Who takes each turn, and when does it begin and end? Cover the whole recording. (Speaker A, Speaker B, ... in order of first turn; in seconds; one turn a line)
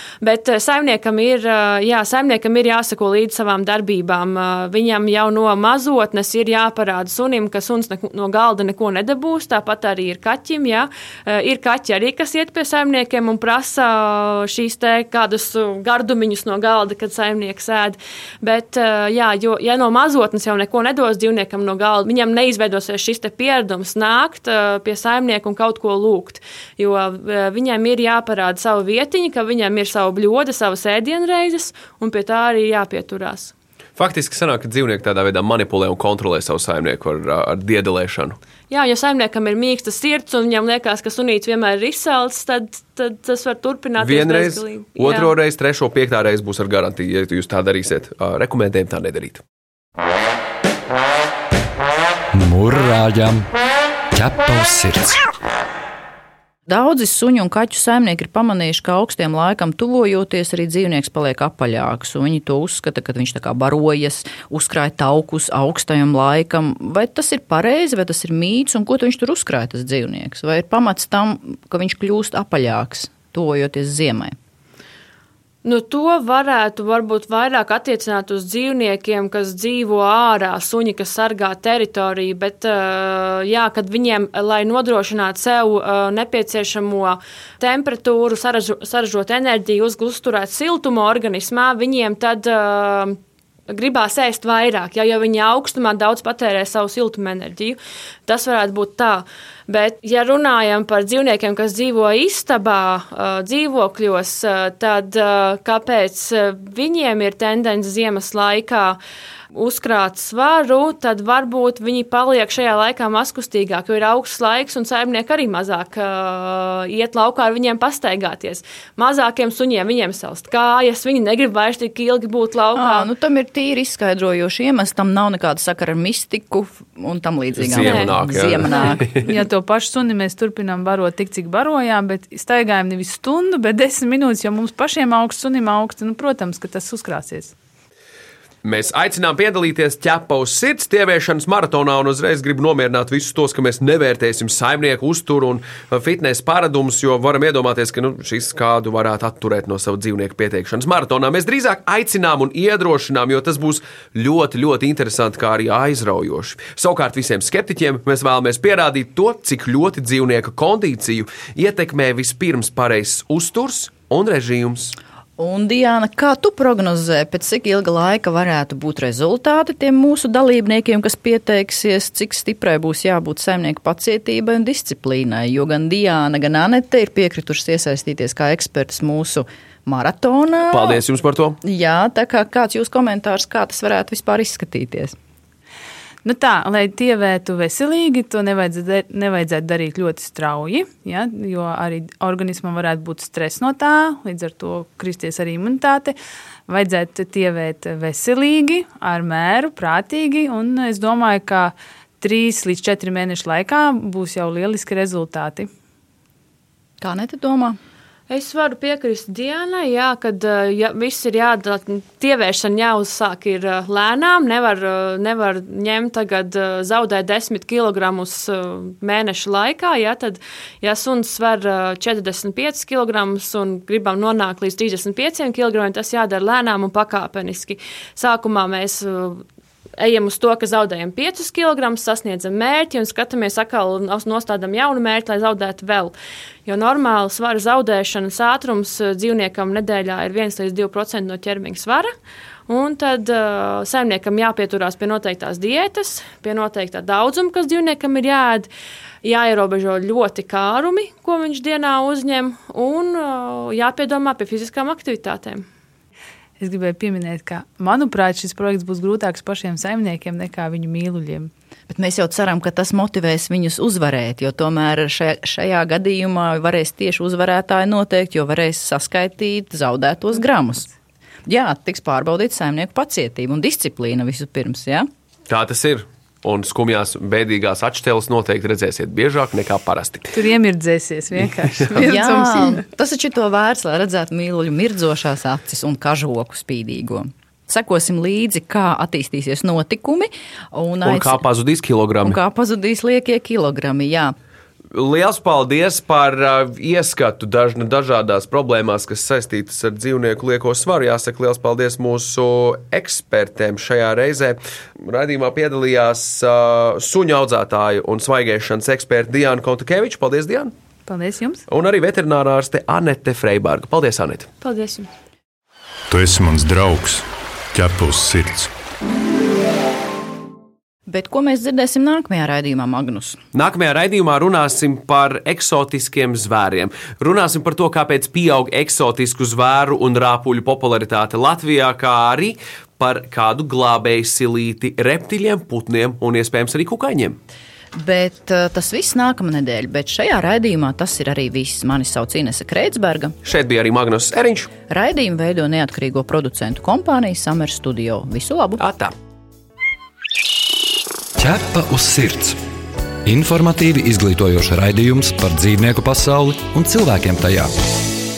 Speaker A: 0.2-33.5
Speaker B: 34.0-38.4
Speaker A: 38.7-45.3
Speaker B: 44.0-49.4
Speaker C: 52.4-53.5
Speaker C: 54.1-55.2
Speaker D: 56.7-74.3
Speaker A: 75.6-93.2
Speaker A: 93.7-109.0
Speaker A: 109.5-123.1
Speaker D: 122.8-129.2
Speaker B: 127.5-129.3
Speaker A: 127.8-128.1
Speaker A: 128.7-129.0
Speaker E: 129.1-137.5
Speaker B: 138.6-165.0
Speaker D: 165.4-181.0
Speaker B: 180.7-181.6
Speaker D: 181.6-185.2
Speaker E: 186.2-196.2
Speaker E: 196.7-205.7
Speaker D: 207.0-207.8
Speaker A: 208.3-229.4
Speaker A: 230.0-236.1
Speaker A: 236.7-242.1
Speaker A: 242.7-248.7
Speaker A: 249.2-255.7
Speaker E: 256.6-261.5
Speaker D: 261.9-270.9
Speaker D: 271.5-275.1
Speaker B: 275.5-280.4
Speaker E: 280.3-282.9
Speaker D: 281.9-291.4
Speaker B: 291.0-292.4
Speaker D: 292.2-294.4
Speaker B: 294.9-310.7
Speaker E: 311.1-311.6
Speaker B: 311.7-314.5
Speaker A: 314.6-315.1
Speaker F: 316.1-318.7
Speaker D: 321.1-323.4
Speaker B: 323.5-337.4
Speaker D: 337.9-343.4
Speaker B: 343.4-344.7
Speaker D: 344.9-348.8
Speaker B: 348.8-349.1
Speaker C: 351.4-352.6
Speaker C: 353.2-357.7